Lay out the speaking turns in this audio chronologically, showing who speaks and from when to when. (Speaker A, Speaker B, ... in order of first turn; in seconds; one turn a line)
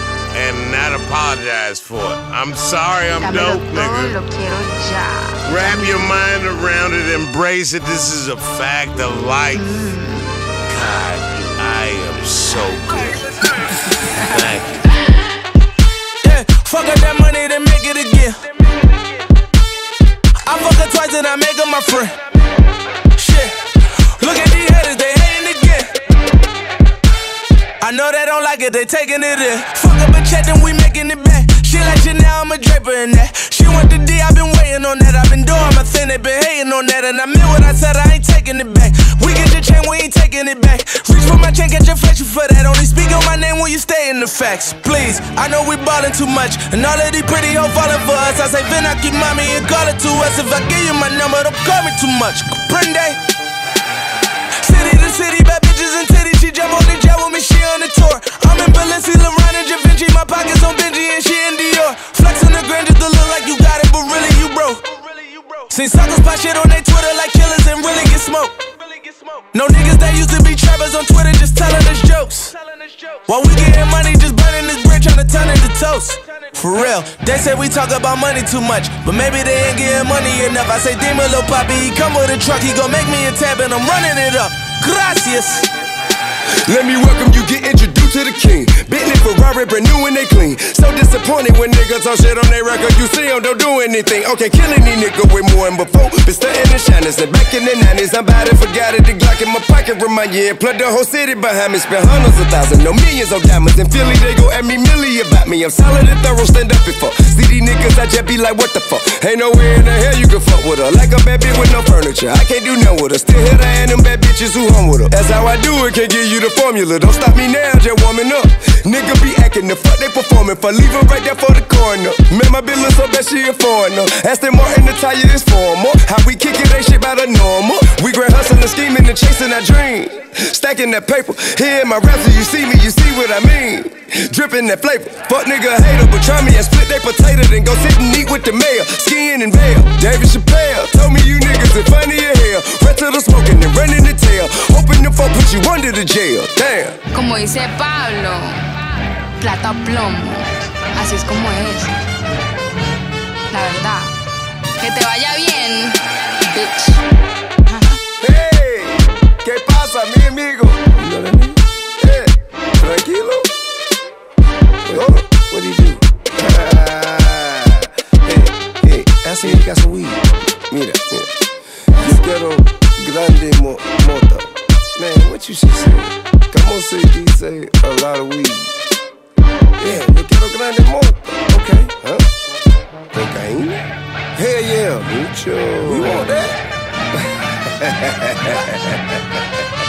Speaker A: 0.3-4.1
Speaker B: 3.2-6.2
Speaker A: 5.5-9.9
Speaker B: 9.5-10.5
Speaker A: 10.7-13.3
Speaker A: 14.1-14.9
Speaker C: 16.2-18.8
Speaker C: 20.4-22.2
Speaker C: 23.1-26.0
Speaker C: 27.8-53.2
Speaker C: 54.6-85.7
Speaker D: 86.6-147.0
Speaker B: 147.1-151.9
Speaker B: 153.5-154.1
Speaker B: 154.8-157.0
Speaker B: 157.7-158.0
Speaker D: 158.2-163.5
Speaker D: 164.8-171.3
Speaker D: 171.8-178.7
Speaker D: 179.8-182.3
Speaker D: 183.1-183.8
Speaker D: 184.3-186.6
Speaker D: 187.1-189.4